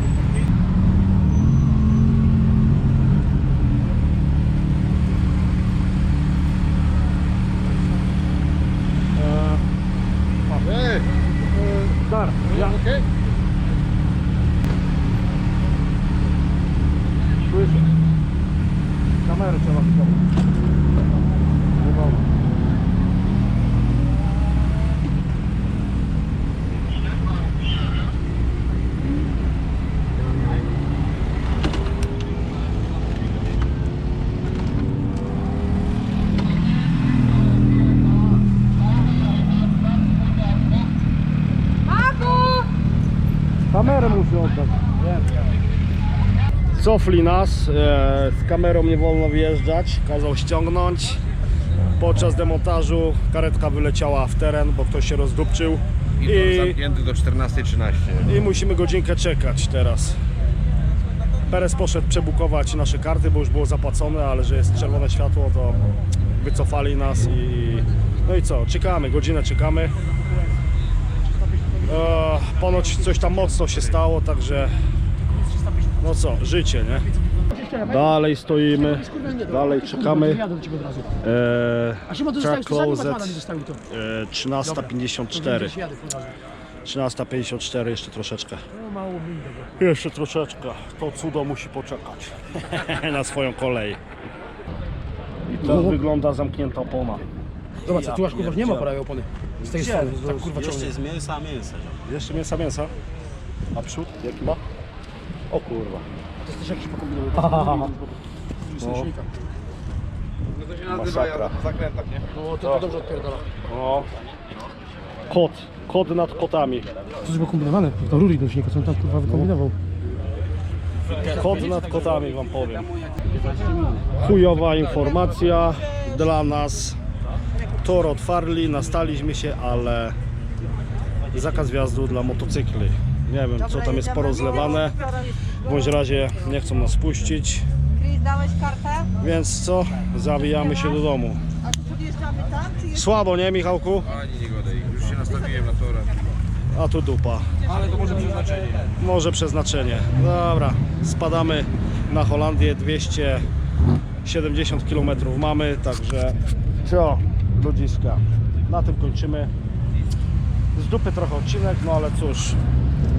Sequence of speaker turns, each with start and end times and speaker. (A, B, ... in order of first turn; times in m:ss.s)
0:09.2-0:09.6 A
0:10.5-0:10.9 A
0:10.7-0:11.1 B
0:11.5-0:12.8 A
0:12.5-0:13.0 B
0:19.3-0:20.1 A
0:41.9-0:42.7 C
0:43.7-0:44.9 A
0:46.8-0:51.2 A
0:52.0-0:56.8 A
0:56.2-0:58.2 B
0:58.2-1:00.2 A
1:01.5-1:05.8 A
1:06.4-1:09.9 A
1:11.6-1:12.0 D
1:11.8-1:14.8 A
1:15.2-1:16.2 D
1:16.0-1:17.1 A
1:17.0-1:18.2 D
1:17.8-1:20.5 A
1:18.7-1:21.1 D
1:21.2-1:25.8 A
1:22.1-1:23.8 D
1:24.6-1:26.4 D
1:26.8-1:28.7 A
1:28.7-1:29.8 D
1:29.8-1:34.0 A
1:35.5-1:37.3 A
1:35.6-1:36.0 D
1:37.8-1:41.0 D
1:37.9-1:38.9 A
1:39.6-1:40.2 A
1:40.0-1:42.0 E
1:42.0-1:42.9 A
1:43.7-1:44.6 A
1:45.5-1:46.1 A
1:46.4-1:48.1 D
1:47.4-1:47.9 A
1:48.6-1:49.3 D
1:48.8-1:49.1 A
1:50.6-1:52.2 B
1:50.8-1:51.6 A
1:52.3-1:53.5 D
1:52.6-1:52.9 A
1:53.7-1:54.1 A
1:55.3-1:56.9 A
1:57.2-1:59.8 D
2:01.0-2:04.2 E
2:01.2-2:02.9 A
2:04.2-2:07.0 A
2:07.8-2:10.2 A
2:11.3-2:15.0 A
2:13.6-2:16.1 C
2:15.6-2:17.7 A
2:17.9-2:19.1 C
2:19.2-2:21.4 A
2:21.6-2:23.2 C
2:22.9-2:24.2 A
2:24.1-2:26.1 B
2:26.7-2:27.7 A
2:27.7-2:28.8 B
2:29.0-2:33.4 A
2:34.2-2:39.5 A
2:40.7-2:42.6 A